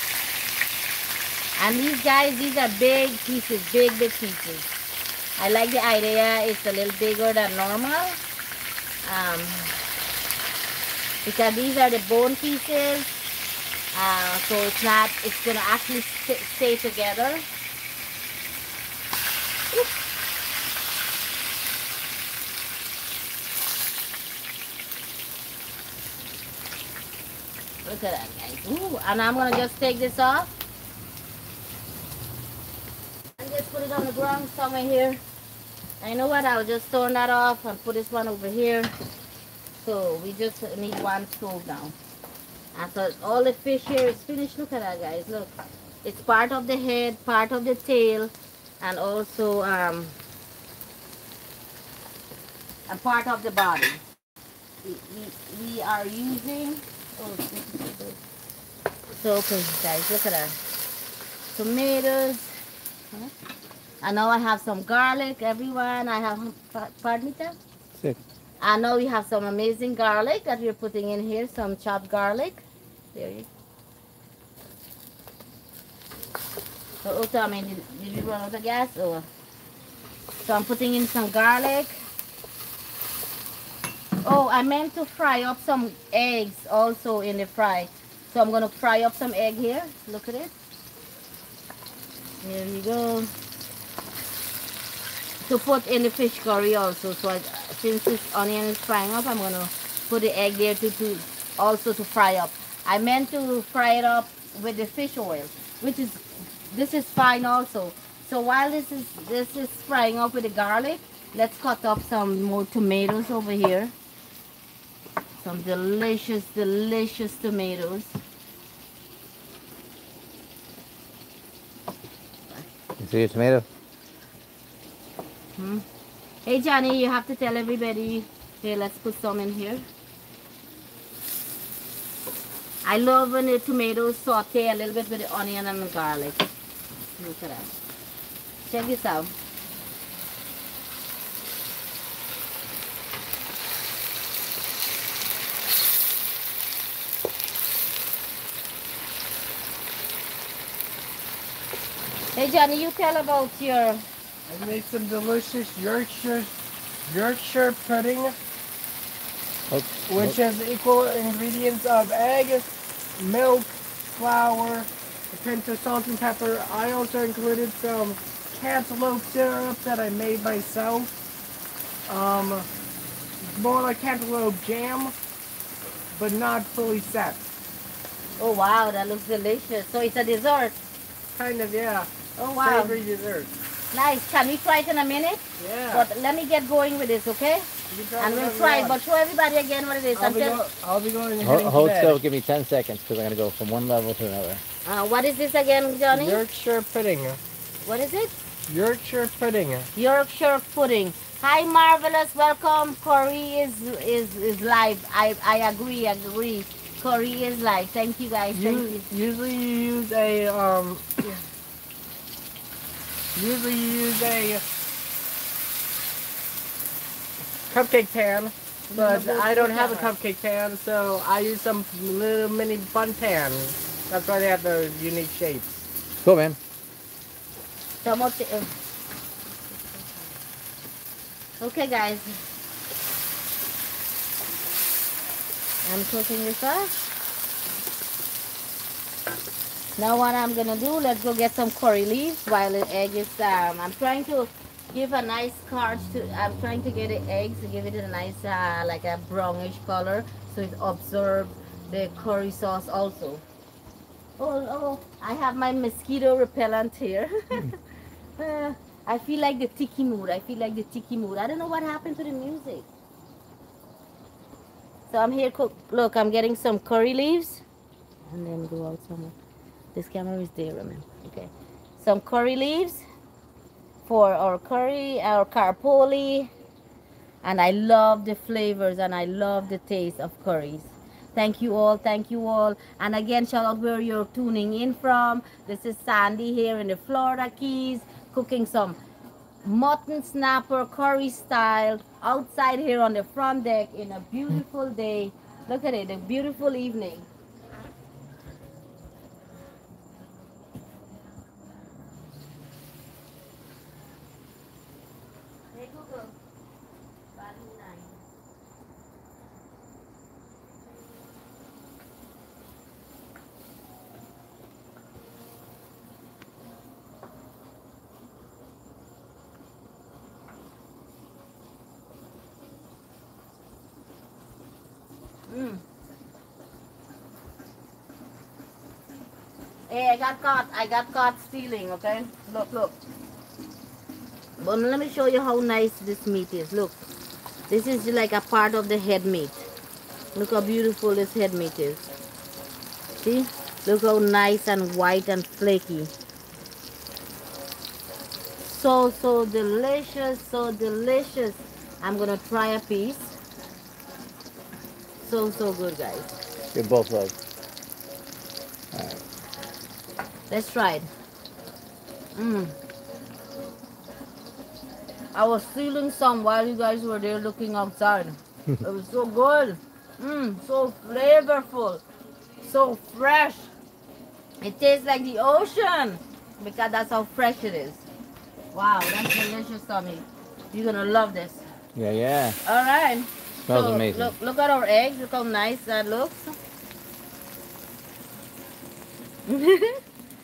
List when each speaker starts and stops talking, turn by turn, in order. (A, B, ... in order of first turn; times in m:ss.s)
0:01.6-0:04.7 A
0:05.4-0:08.2 A
0:09.0-0:09.8 A
0:11.2-0:13.1 A
0:13.9-0:17.4 A
0:27.8-0:30.5 A
0:33.4-0:35.2 A
0:36.0-0:38.9 A
0:39.8-0:42.0 A
0:42.7-0:45.5 A
0:46.0-0:50.2 A
0:52.9-0:54.0 A
0:54.8-0:58.2 A
0:59.2-1:00.6 A
1:01.5-1:02.5 A
1:04.0-1:07.6 A
1:08.6-1:12.6 A
1:13.2-1:13.5 A
1:17.0-1:19.3 A
1:20.4-1:22.0 A
1:24.2-1:30.5 A
1:32.4-1:33.3 A
1:35.4-1:53.9 A
1:55.4-1:58.2 A
2:03.0-2:03.7 B
2:05.6-2:05.8 A
2:06.4-2:09.9 A
2:12.8-2:16.4 A
2:17.2-2:17.7 A
2:18.6-2:19.3 A
2:32.4-2:34.0 A
2:34.5-2:36.5 C
2:37.1-2:38.3 C
2:39.7-2:40.4 B
2:40.1-2:51.1 C
2:52.1-2:52.7 C
2:53.4-2:55.1 C
2:56.1-2:57.4 C
2:58.4-3:00.8 A
3:01.4-3:02.1 C
3:02.4-3:03.0 A
3:02.6-3:03.5 C
3:03.9-3:07.7 A
3:05.6-3:06.1 C
3:07.9-3:09.0 C
3:08.2-3:10.6 A
3:10.2-3:12.2 C
3:11.4-3:14.6 B
3:14.8-3:16.4 A
3:16.1-3:17.4 C
3:17.8-3:18.4 A
3:18.7-3:19.9 C
3:20.0-3:29.1 A
3:28.6-3:31.2 C
3:33.4-3:34.6 C
3:37.7-3:45.9 C
3:38.9-3:40.1 A
3:46.2-3:46.6 B
3:48.0-3:48.7 A
3:49.8-3:50.1 A
3:51.6-3:52.3 A
3:55.8-3:56.9 A
4:00.0-4:13.4 A
4:14.4-4:17.8 A
4:18.4-4:22.9 A
4:25.1-4:27.6 A
4:28.3-4:29.3 A
4:30.0-4:33.0 A
4:34.0-4:36.5 A
4:37.4-4:49.0 A
4:49.6-4:57.3 A
5:05.7-5:06.3 A
5:07.3-5:08.2 A
5:25.5-5:25.8 A
5:29.9-5:33.0 A
5:34.6-5:37.0 A
5:37.7-5:39.7 A
5:40.4-5:42.1 A
5:43.2-5:46.1 A
5:48.6-5:53.4 A
5:55.2-5:56.4 A
5:56.7-5:57.4 B
5:58.9-5:59.2 B
6:00.5-6:01.1 A
6:02.4-6:02.7 A
6:05.3-6:12.0 A
6:12.6-6:13.7 A
6:14.6-6:18.0 A
6:18.7-6:21.7 A
6:22.0-6:22.6 B
6:22.7-6:26.6 A
6:23.6-6:24.3 B
6:29.5-6:30.0 A